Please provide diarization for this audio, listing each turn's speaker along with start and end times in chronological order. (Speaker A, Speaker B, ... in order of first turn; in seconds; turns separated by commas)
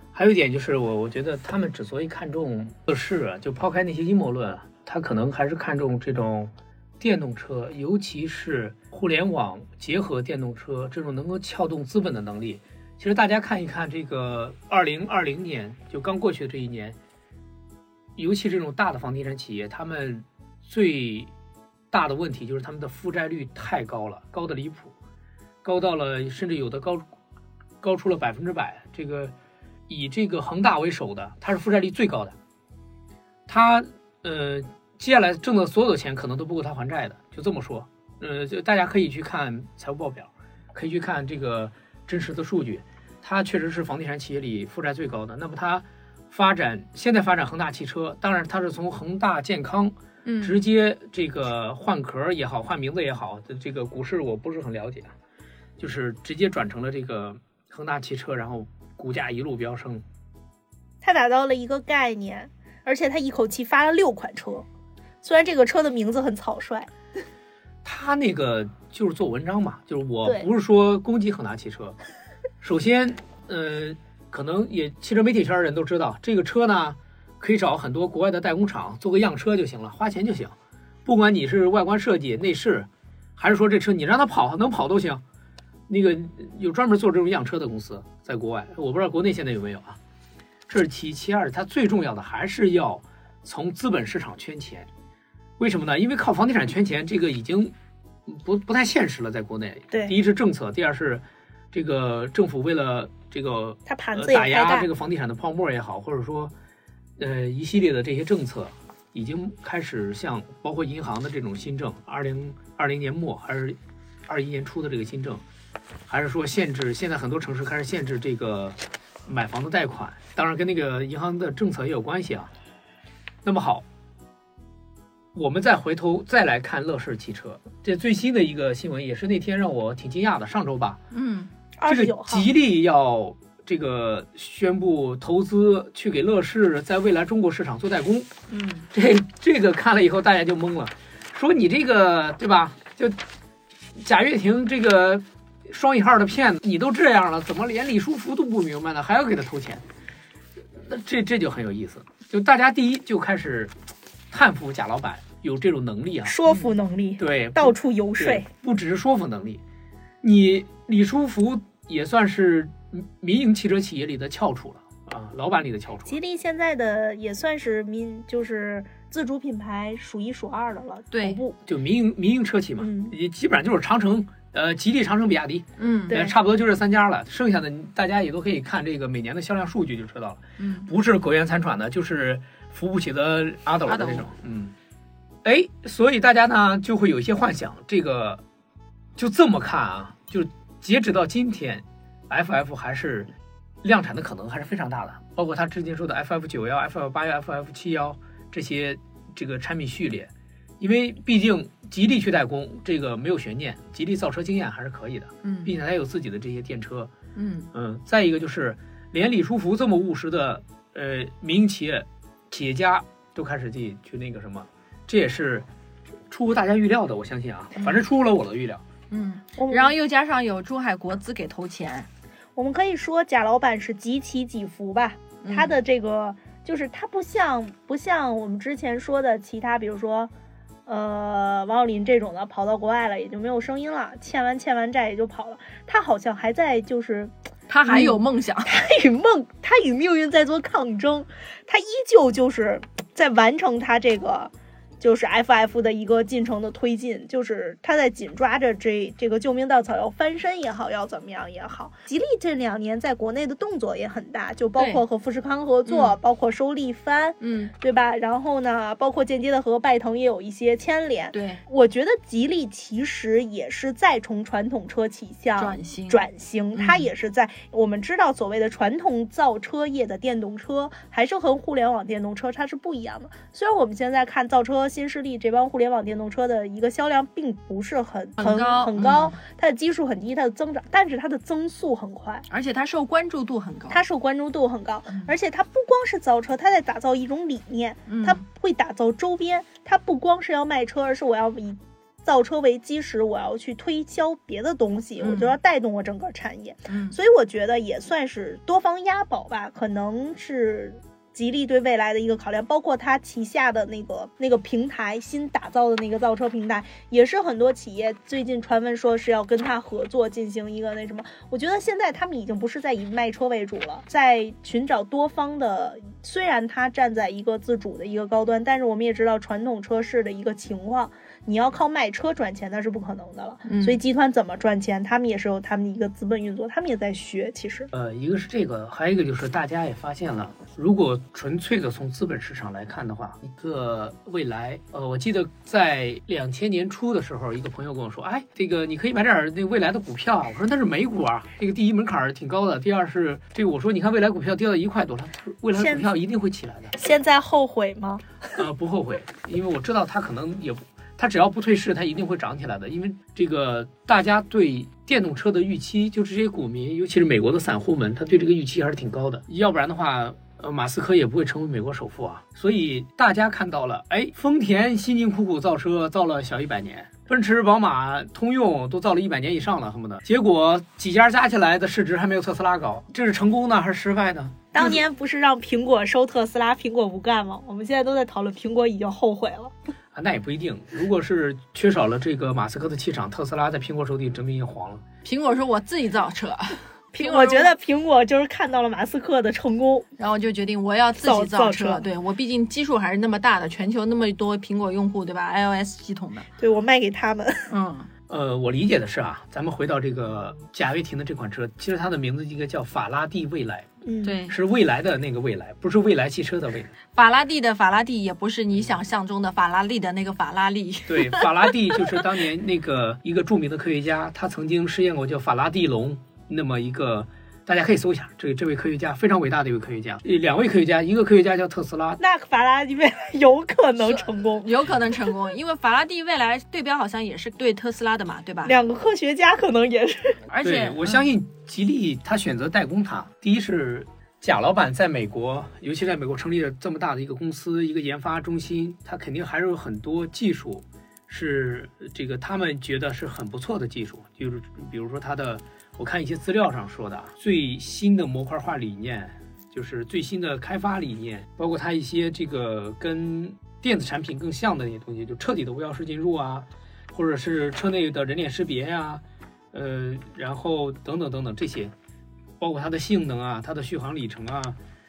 Speaker A: 0.1-17.0, Speaker A: 18.1-21.3, Speaker A: 21.9-24.9, Speaker A: 25.6-27.1, Speaker A: 27.8-29.3, Speaker A: 29.9-32.4, Speaker A: 33.5-55.1, Speaker B: 50.2-50.6, Speaker A: 55.8-60.0, Speaker C: 61.0-64.7, Speaker C: 65.2-66.9, Speaker A: 67.8-72.0, Speaker A: 72.6-85.2, Speaker A: 85.9-90.0, Speaker A: 90.7-94.9, Speaker A: 95.6-97.7, Speaker A: 98.3-106.5, Speaker C: 103.9-104.9, Speaker A: 107.2-115.4, Speaker A: 116.1-122.5, Speaker A: 123.4-123.8, Speaker A: 125.3-131.0, Speaker B: 131.1-131.5, Speaker C: 131.8-132.5, Speaker A: 131.8-138.3, Speaker B: 138.5-138.9, Speaker A: 138.9-143.2, Speaker A: 144.0-149.8, Speaker A: 150.8-153.8, Speaker A: 154.3-156.4, Speaker C: 156.2-158.4, Speaker A: 157.2-159.6, Speaker A: 160.2-166.2, Speaker C: 166.1-171.6, Speaker B: 171.1-171.4, Speaker A: 171.7-184.7, Speaker C: 172.8-173.1, Speaker B: 175.8-176.2, Speaker C: 176.1-176.3, Speaker B: 180.6-180.9, Speaker B: 183.9-184.2, Speaker A: 185.4-188.4, Speaker A: 189.2-193.3, Speaker A: 193.8-207.1, Speaker B: 205.4-205.7, Speaker B: 207.3-207.7, Speaker A: 207.7-215.7, Speaker A: 216.3-218.8, Speaker B: 219.1-222.1, Speaker C: 219.6-219.9, Speaker C: 222.6-230.3, Speaker B: 225.4-225.8, Speaker C: 230.9-237.3, Speaker B: 237.7-238.7, Speaker C: 237.8-282.4, Speaker B: 255.8-256.1, Speaker B: 257.4-257.7, Speaker B: 261.3-261.6, Speaker B: 265.6-266.2, Speaker B: 266.8-267.1, Speaker B: 278.4-279.4, Speaker B: 282.5-284.0, Speaker C: 283.9-327.9, Speaker B: 288.1-288.4, Speaker B: 295.2-295.6, Speaker B: 296.9-297.2, Speaker B: 323.6-324.0, Speaker A: 327.9-346.9, Speaker C: 345.8-346.1, Speaker C: 346.9-348.2, Speaker A: 348.6-375.0, Speaker C: 374.7-379.7, Speaker A: 380.1-385.0, Speaker B: 385.2-387.7, Speaker C: 387.1-390.1, Speaker B: 390.2-396.5, Speaker C: 391.2-392.0, Speaker C: 396.6-397.7, Speaker B: 397.7-398.1, Speaker A: 398.3-403.9, Speaker C: 404.0-404.4, Speaker B: 404.2-404.6, Speaker A: 404.5-406.9, Speaker B: 407.1-412.1, Speaker A: 411.1-422.2, Speaker C: 422.2-425.3, Speaker B: 424.0-428.7, Speaker C: 428.6-430.4, Speaker B: 430.5-431.3, Speaker A: 430.6-461.9, Speaker A: 462.6-464.8